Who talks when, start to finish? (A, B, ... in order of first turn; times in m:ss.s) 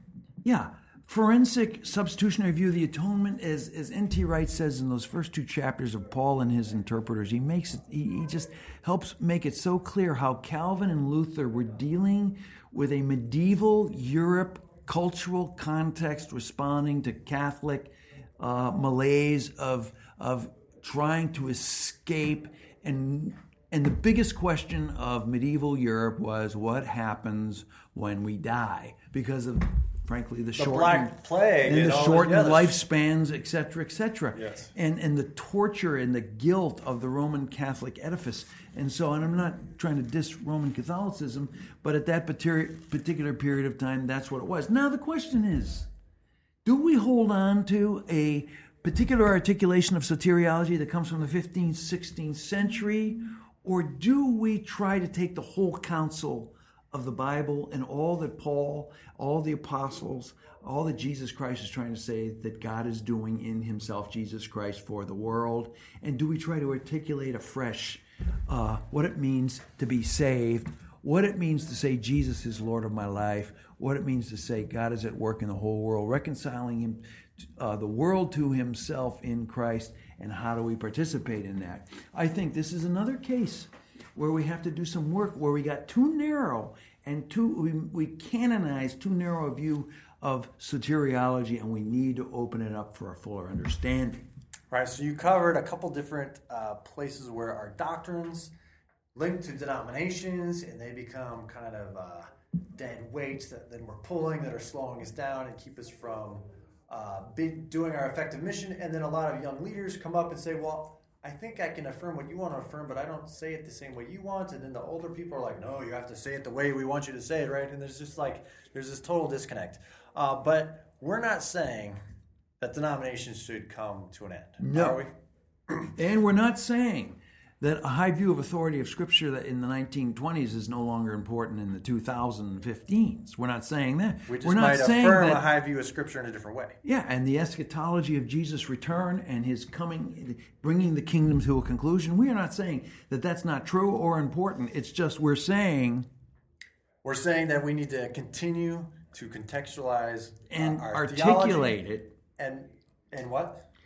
0:00.4-0:45.9 A
0:30.6-0:32.8 B
0:34.3-0:34.7 B
0:46.6-1:34.3 A
1:34.7-1:38.5 B
1:39.2-2:02.0 B
2:02.6-2:05.1 B
2:04.6-2:05.0 A
2:06.0-2:15.5 A
2:14.3-2:16.8 B
2:16.8-2:26.1 A
2:27.0-2:31.8 B
2:30.5-2:32.1 A
2:32.4-2:33.6 B